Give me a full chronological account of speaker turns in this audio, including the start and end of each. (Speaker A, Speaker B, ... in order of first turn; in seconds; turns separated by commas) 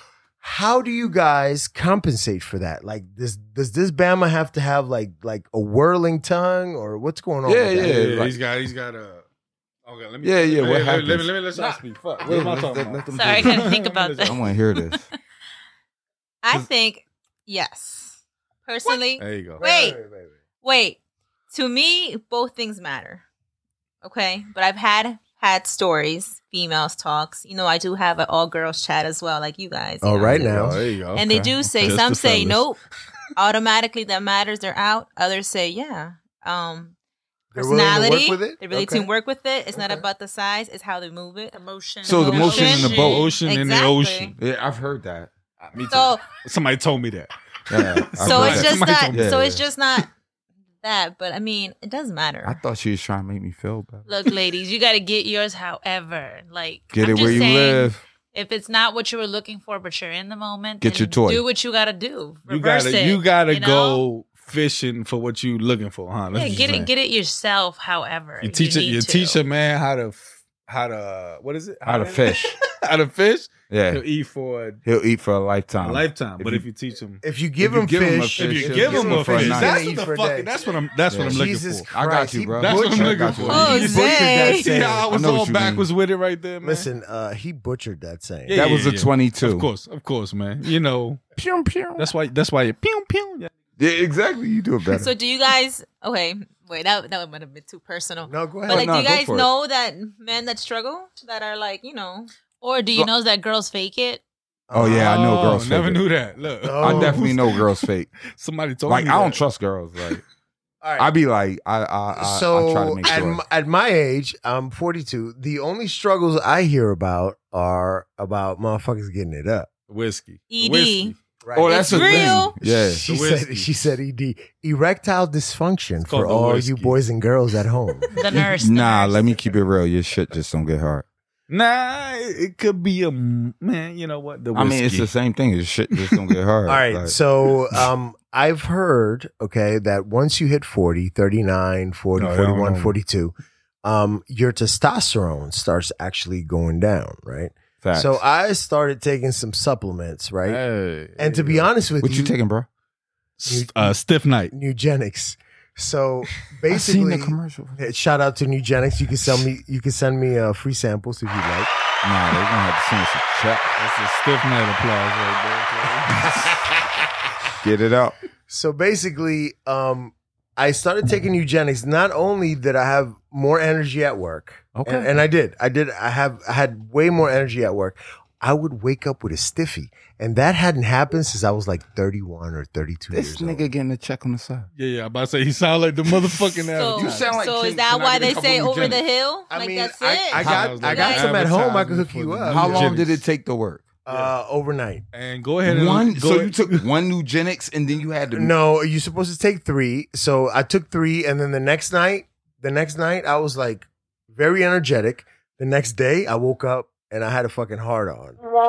Speaker A: 0.4-8.0, Speaker B: 7.4-8.4, Speaker C: 7.8-9.2, Speaker C: 9.8-14.4, Speaker B: 10.2-11.4, Speaker B: 12.2-15.1, Speaker D: 13.1-15.0, Speaker E: 16.4-20.0, Speaker C: 19.2-19.6, Speaker A: 19.6-20.3, Speaker E: 20.6-21.0, Speaker E: 21.5-23.2, Speaker E: 24.0-32.8, Speaker A: 30.0-30.8, Speaker C: 30.4-32.6, Speaker B: 31.2-31.5, Speaker E: 33.3-36.9, Speaker A: 37.5-39.1, Speaker E: 37.5-44.3, Speaker A: 39.7-40.0, Speaker D: 41.5-43.3, Speaker B: 42.0-43.3, Speaker C: 42.3-44.3, Speaker B: 44.4-45.3, Speaker C: 45.6-49.4, Speaker E: 45.9-46.2, Speaker B: 47.7-49.6, Speaker E: 48.2-50.1, Speaker E: 50.8-52.6, Speaker B: 52.4-54.1, Speaker D: 54.1-64.0, Speaker B: 56.9-58.0, Speaker B: 60.8-61.4, Speaker C: 62.5-66.9, Speaker D: 66.3-69.4, Speaker C: 68.4-74.8, Speaker B: 71.8-72.6, Speaker B: 73.7-74.0, Speaker B: 74.8-76.7, Speaker C: 75.8-77.2, Speaker A: 77.2-80.6, Speaker B: 77.6-79.9, Speaker C: 78.3-81.9, Speaker B: 81.1-83.9, Speaker A: 81.1-85.2, Speaker C: 82.6-86.9, Speaker E: 83.5-84.7, Speaker B: 85.1-85.9, Speaker A: 86.6-88.8, Speaker C: 88.5-91.2, Speaker B: 88.5-89.7, Speaker B: 91.3-92.1, Speaker C: 92.0-93.5, Speaker B: 93.8-95.1, Speaker E: 94.9-102.3, Speaker A: 98.3-98.9, Speaker B: 98.7-99.5, Speaker D: 102.6-104.2, Speaker A: 104.7-105.6, Speaker B: 104.7-106.0, Speaker C: 104.8-109.4, Speaker A: 106.6-107.3, Speaker B: 106.8-108.1, Speaker B: 108.8-110.2, Speaker A: 110.8-111.1, Speaker B: 111.0-113.4, Speaker A: 112.1-119.7, Speaker C: 119.9-121.2, Speaker E: 120.5-121.2, Speaker A: 121.4-128.1, Speaker B: 121.5-123.0, Speaker E: 121.7-122.5, Speaker C: 123.1-123.7, Speaker C: 126.0-127.0, Speaker D: 128.1-129.4, Speaker B: 128.3-131.0, Speaker C: 131.5-135.1, Speaker B: 134.5-137.2, Speaker A: 136.7-150.6, Speaker C: 142.2-143.0, Speaker B: 147.8-148.2, Speaker C: 150.5-151.7, Speaker A: 151.2-152.3, Speaker B: 152.0-152.7, Speaker C: 153.4-154.5, Speaker A: 153.5-154.0, Speaker A: 154.5-161.7, Speaker B: 156.7-157.8, Speaker B: 162.0-163.7, Speaker C: 163.8-166.3, Speaker A: 166.5-166.8, Speaker B: 167.6-168.2, Speaker A: 168.5-183.7, Speaker B: 174.8-175.1, Speaker B: 183.1-184.7, Speaker C: 184.8-187.3, Speaker E: 186.7-191.3, Speaker B: 186.9-189.0, Speaker A: 189.5-193.0, Speaker C: 190.3-193.2, Speaker B: 192.5-193.9, Speaker A: 194.0-195.1, Speaker C: 195.1-196.8, Speaker B: 195.6-198.5, Speaker A: 198.3-208.4